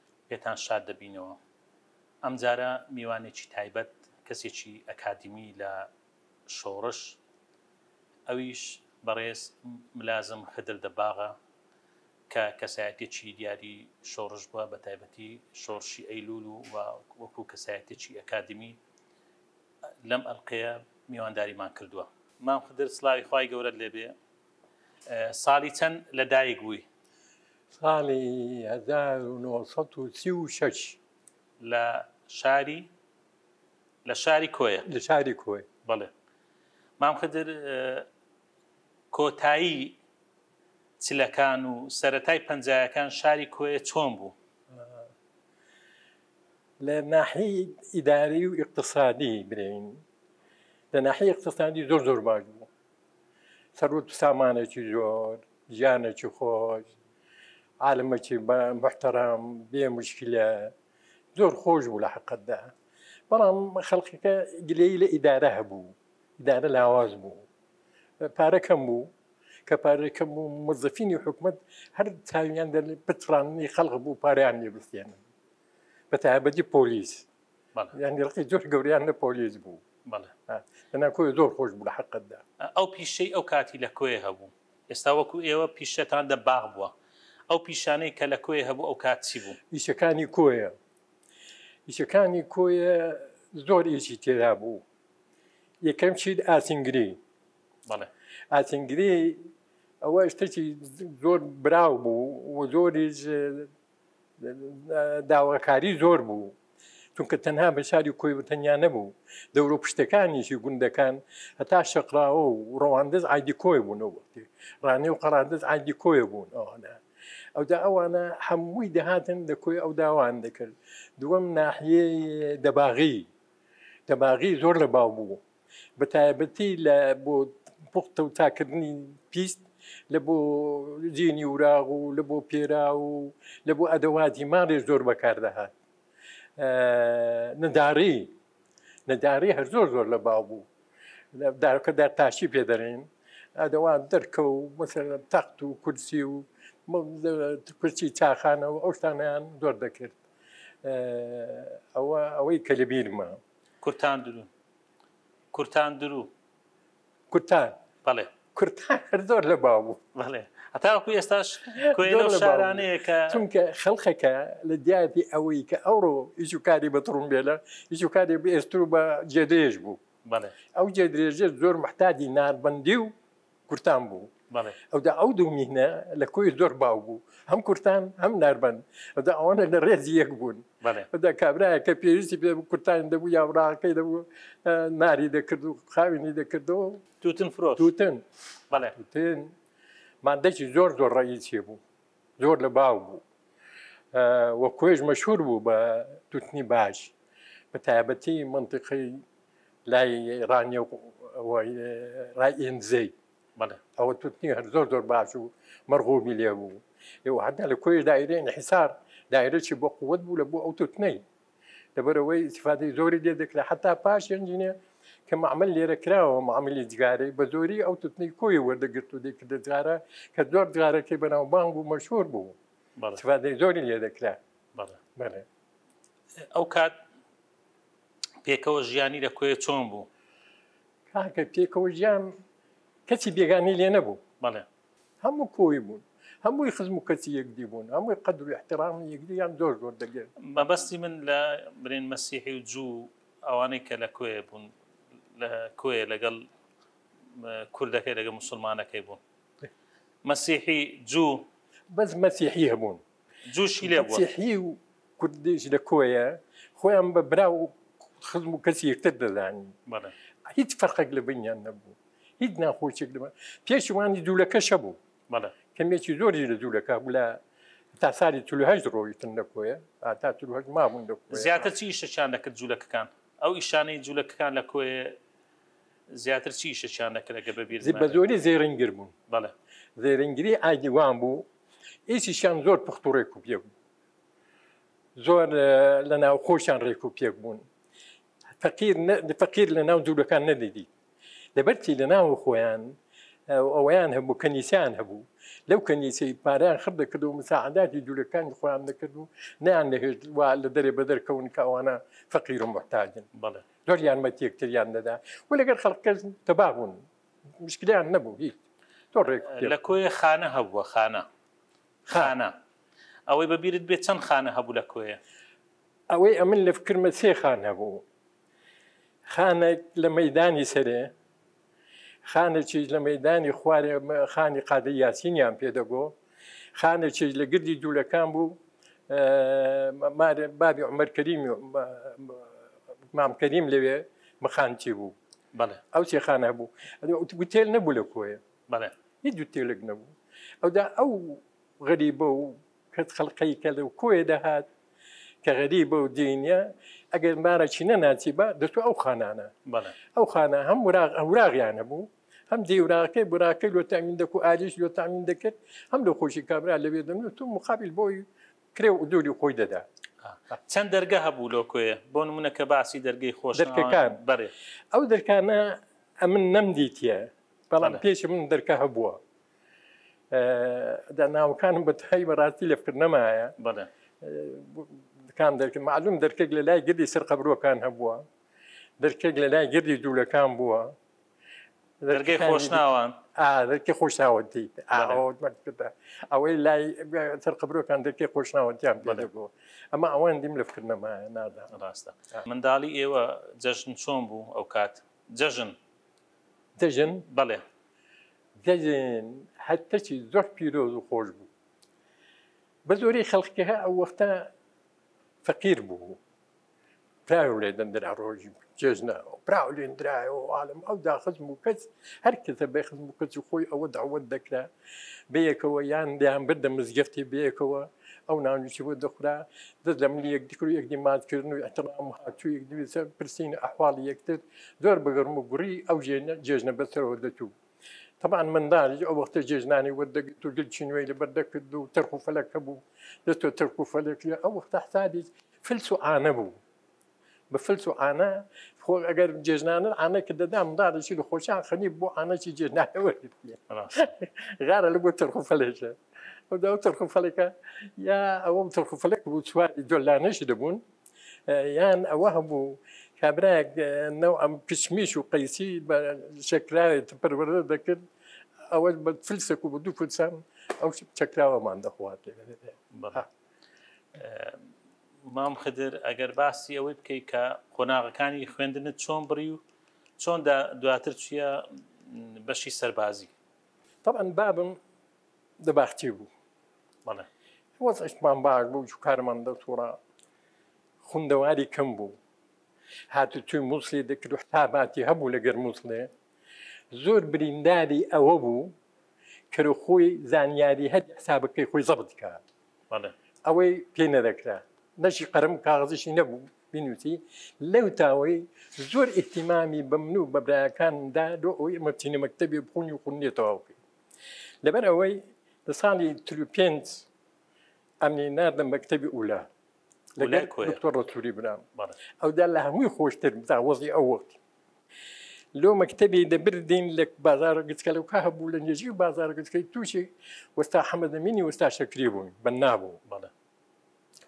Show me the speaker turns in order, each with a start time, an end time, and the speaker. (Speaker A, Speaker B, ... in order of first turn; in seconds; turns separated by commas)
Speaker A: 0.3-1.4, Speaker A: 2.2-5.9, Speaker A: 6.5-7.2, Speaker A: 8.3-11.4, Speaker A: 12.3-18.8, Speaker A: 20.0-24.2, Speaker A: 25.1-26.9, Speaker B: 27.7-31.0, Speaker A: 31.6-32.9, Speaker A: 34.0-34.9, Speaker B: 34.9-35.7, Speaker A: 35.9-36.1, Speaker A: 37.0-38.1, Speaker A: 39.1-40.0, Speaker A: 41.0-44.4, Speaker B: 44.7-45.0, Speaker B: 46.8-50.0, Speaker B: 50.9-52.7, Speaker B: 53.8-56.9, Speaker B: 57.8-60.7, Speaker B: 61.4-62.7, Speaker B: 63.3-67.5, Speaker B: 68.2-69.1, Speaker B: 69.7-75.2, Speaker B: 76.1-77.3, Speaker B: 77.9-79.8, Speaker A: 80.1-80.3, Speaker B: 80.5-82.4, Speaker A: 82.6-87.0, Speaker A: 87.5-89.6, Speaker B: 89.7-90.7, Speaker B: 91.9-94.8, Speaker B: 95.8-97.2, Speaker B: 98.5-99.5, Speaker B: 100.0-103.7, Speaker B: 104.4-106.5, Speaker B: 107.2-117.0, Speaker B: 117.5-123.3, Speaker B: 124.1-125.4, Speaker B: 126.0-135.7, Speaker B: 136.6-138.3, Speaker B: 139.1-140.7, Speaker B: 141.3-150.2, Speaker B: 150.8-153.4, Speaker A: 153.8-154.5, Speaker A: 155.5-156.3, Speaker B: 157.3-157.8, Speaker A: 158.0-158.3, Speaker B: 158.5-160.0, Speaker A: 160.2-163.4, Speaker B: 161.7-170.0, Speaker A: 170.2-170.6, Speaker B: 170.7-173.1, Speaker B: 173.7-174.3, Speaker A: 174.5-174.8, Speaker B: 174.9-187.0, Speaker A: 180.8-181.1, Speaker A: 187.2-187.9, Speaker B: 187.8-189.5, Speaker A: 188.7-189.0, Speaker B: 190.2-191.8, Speaker B: 192.4-193.2, Speaker B: 194.1-197.1, Speaker B: 197.7-199.2, Speaker B: 199.9-203.1, Speaker B: 204.0-211.2, Speaker B: 211.9-222.6, Speaker B: 223.2-224.4, Speaker A: 224.8-225.0, Speaker B: 225.2-225.5, Speaker A: 226.4-226.9, Speaker A: 228.4-230.1, Speaker B: 231.1-232.3, Speaker B: 233.1-234.2, Speaker A: 234.4-234.7, Speaker B: 235.2-240.6, Speaker A: 240.4-244.7, Speaker A: 245.3-246.5, Speaker A: 247.3-249.2, Speaker A: 250.2-251.5, Speaker B: 251.9-253.0, Speaker A: 253.5-254.3, Speaker B: 253.8-259.8, Speaker A: 259.9-260.1, Speaker B: 260.5-265.0, Speaker B: 265.8-267.4, Speaker B: 267.9-271.7, Speaker A: 271.3-275.2, Speaker A: 276.1-278.2, Speaker B: 277.8-279.1, Speaker B: 280.0-281.5, Speaker B: 282.1-283.7, Speaker B: 285.2-287.6, Speaker B: 288.6-290.9, Speaker B: 291.6-303.3, Speaker A: 303.4-303.6, Speaker B: 303.9-307.1, Speaker B: 307.6-308.6, Speaker B: 309.1-309.8, Speaker A: 309.5-311.3, Speaker B: 312.1-312.3, Speaker A: 312.1-312.6, Speaker A: 313.3-315.2, Speaker B: 316.1-318.0, Speaker B: 319.3-321.1, Speaker B: 322.3-326.1, Speaker B: 326.8-328.6, Speaker B: 329.1-332.5, Speaker B: 333.1-335.1, Speaker A: 335.5-335.8, Speaker B: 335.9-338.4, Speaker A: 338.7-338.9, Speaker B: 339.2-344.7, Speaker B: 345.4-349.5, Speaker A: 349.7-350.0, Speaker B: 350.1-359.9, Speaker A: 360.2-364.5, Speaker B: 363.6-364.2, Speaker B: 364.9-369.2, Speaker B: 370.3-373.6, Speaker A: 373.6-373.9, Speaker B: 374.2-378.3, Speaker B: 379.0-381.0, Speaker B: 382.0-391.7, Speaker A: 382.1-383.2, Speaker A: 384.9-385.2, Speaker A: 391.7-395.8, Speaker B: 396.8-397.3, Speaker A: 397.3-397.6, Speaker B: 398.6-401.5, Speaker B: 402.9-404.5, Speaker B: 405.4-406.2, Speaker B: 407.3-414.7, Speaker B: 415.3-427.5, Speaker B: 428.2-436.6, Speaker B: 437.5-446.0, Speaker A: 443.7-444.0, Speaker B: 446.5-450.8, Speaker B: 451.5-458.0, Speaker B: 458.7-463.3, Speaker A: 462.9-463.2, Speaker A: 464.2-464.6, Speaker A: 465.2-469.6, Speaker A: 470.2-473.3, Speaker B: 474.0-474.8, Speaker B: 475.6-476.3, Speaker B: 477.8-480.0, Speaker B: 481.0-482.2, Speaker B: 483.1-486.1, Speaker B: 486.9-488.8, Speaker B: 489.5-492.4, Speaker A: 492.9-493.1, Speaker B: 493.4-503.8, Speaker B: 504.6-507.1, Speaker B: 508.0-509.5, Speaker B: 510.1-511.6, Speaker A: 510.2-510.8, Speaker B: 512.2-514.4, Speaker B: 515.5-523.0